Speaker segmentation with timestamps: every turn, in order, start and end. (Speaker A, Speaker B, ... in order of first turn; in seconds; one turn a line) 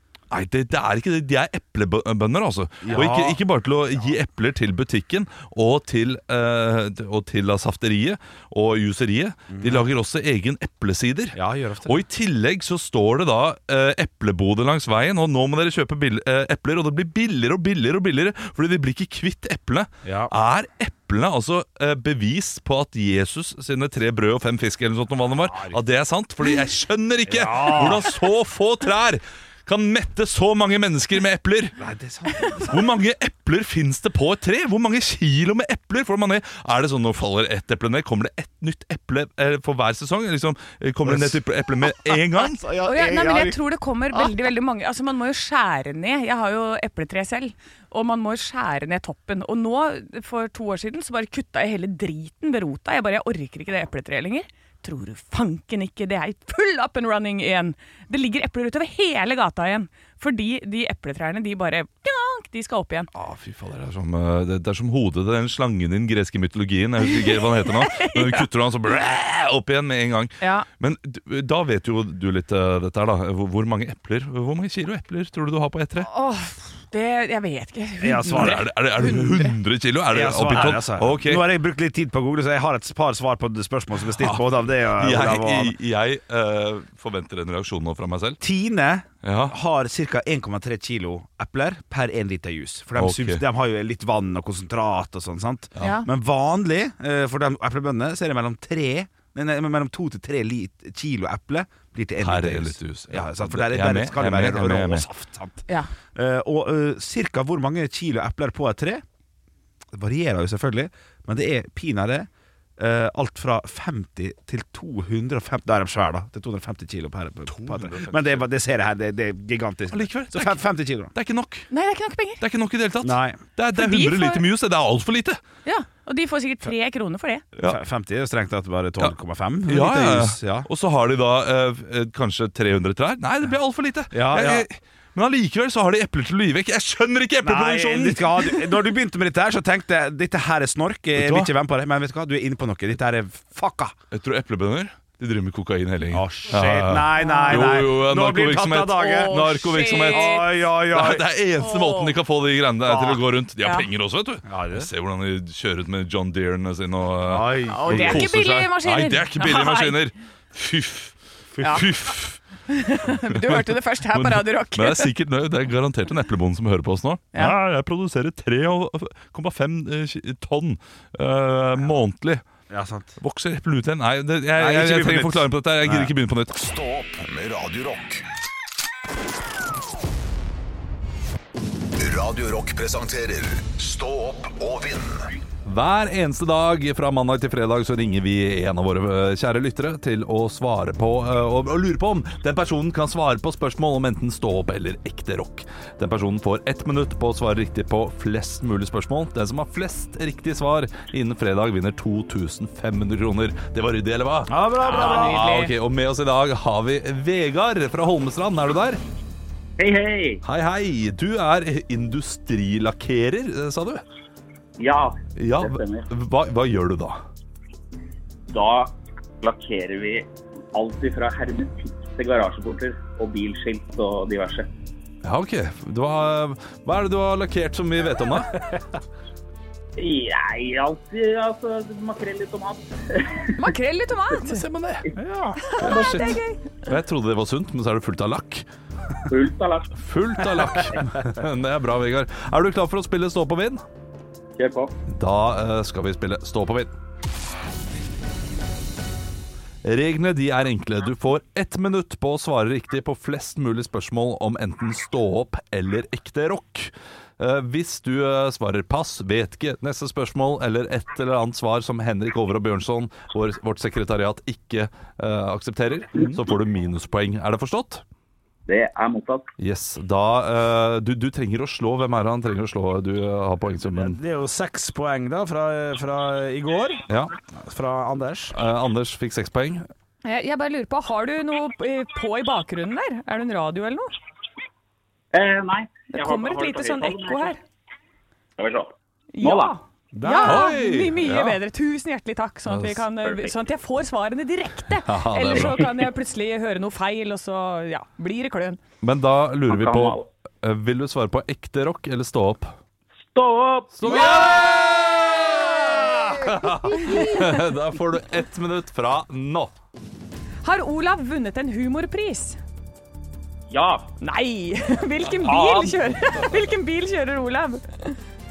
Speaker A: 0.3-31.7
Speaker B: 2.8-3.4
Speaker B: 9.5-9.9
Speaker B: 11.3-12.0
Speaker B: 20.0-20.3
Speaker B: 25.4-25.8
Speaker B: 27.3-28.1
Speaker B: 31.8-32.8
Speaker A: 32.7-42.6
Speaker B: 41.0-43.6
Speaker C: 42.8-63.1
Speaker A: 63.1-76.1
Speaker C: 67.1-68.5
Speaker C: 70.4-70.7
Speaker C: 76.0-79.5
Speaker B: 78.0-78.7
Speaker A: 78.3-81.5
Speaker B: 80.1-85.8
Speaker A: 84.2-84.4
Speaker A: 85.0-88.4
Speaker B: 88.4-109.0
Speaker A: 89.2-89.5
Speaker A: 93.0-93.4
Speaker A: 95.7-96.0
Speaker C: 95.8-96.1
Speaker A: 102.2-105.1
Speaker B: 109.9-121.1
Speaker A: 117.5-118.5
Speaker A: 119.9-121.7
Speaker C: 121.7-122.4
Speaker A: 122.4-125.4
Speaker B: 123.0-123.4
Speaker C: 123.7-124.4
Speaker C: 125.6-127.4
Speaker B: 127.6-130.7
Speaker A: 129.7-138.8
Speaker B: 134.1-134.7
Speaker B: 137.4-143.9
Speaker A: 141.2-141.5
Speaker A: 144.1-162.4
Speaker B: 146.1-151.3
Speaker C: 147.2-147.8
Speaker C: 148.9-150.5
Speaker C: 151.6-152.2
Speaker B: 152.8-153.2
Speaker B: 154.4-154.9
Speaker B: 157.2-158.3
Speaker C: 157.7-160.0
Speaker B: 161.5-161.8
Speaker C: 162.7-165.1
Speaker A: 163.2-172.4
Speaker B: 172.7-173.2
Speaker A: 173.2-176.5
Speaker B: 174.6-176.1
Speaker D: 176.5-178.2
Speaker D: 182.0-185.3
Speaker A: 185.6-209.0
Speaker B: 204.5-205.4
Speaker C: 204.8-205.7
Speaker E: 209.8-210.4
Speaker A: 210.4-214.0
Speaker E: 214.8-216.1
Speaker A: 215.3-217.2
Speaker E: 218.5-224.7
Speaker A: 225.2-228.5
Speaker E: 230.0-233.6
Speaker C: 233.6-234.6
Speaker A: 234.4-235.1
Speaker B: 235.2-235.9
Speaker C: 235.6-236.7
Speaker A: 235.8-238.7
Speaker E: 239.3-239.9
Speaker A: 240.0-243.8
Speaker B: 240.6-241.0
Speaker E: 244.6-244.9
Speaker A: 245.1-246.9
Speaker A: 249.8-268.0
Speaker E: 268.7-269.5
Speaker A: 269.6-274.2
Speaker B: 273.9-278.6
Speaker A: 277.1-277.3
Speaker A: 278.5-279.9
Speaker C: 280.2-284.1
Speaker E: 285.3-287.6
Speaker C: 286.1-287.6
Speaker E: 288.6-289.8
Speaker C: 289.3-298.8
Speaker B: 290.1-290.7
Speaker A: 290.4-291.6
Speaker A: 292.6-293.0
Speaker E: 293.3-293.5
Speaker A: 294.9-295.8
Speaker A: 299.0-302.7
Speaker E: 299.7-300.2
Speaker E: 303.3-304.5
Speaker A: 303.9-309.7
Speaker C: 304.1-304.5
Speaker C: 306.9-307.6
Speaker C: 310.6-312.6
Speaker E: 313.7-314.1
Speaker C: 314.2-318.2
Speaker E: 315.4-316.0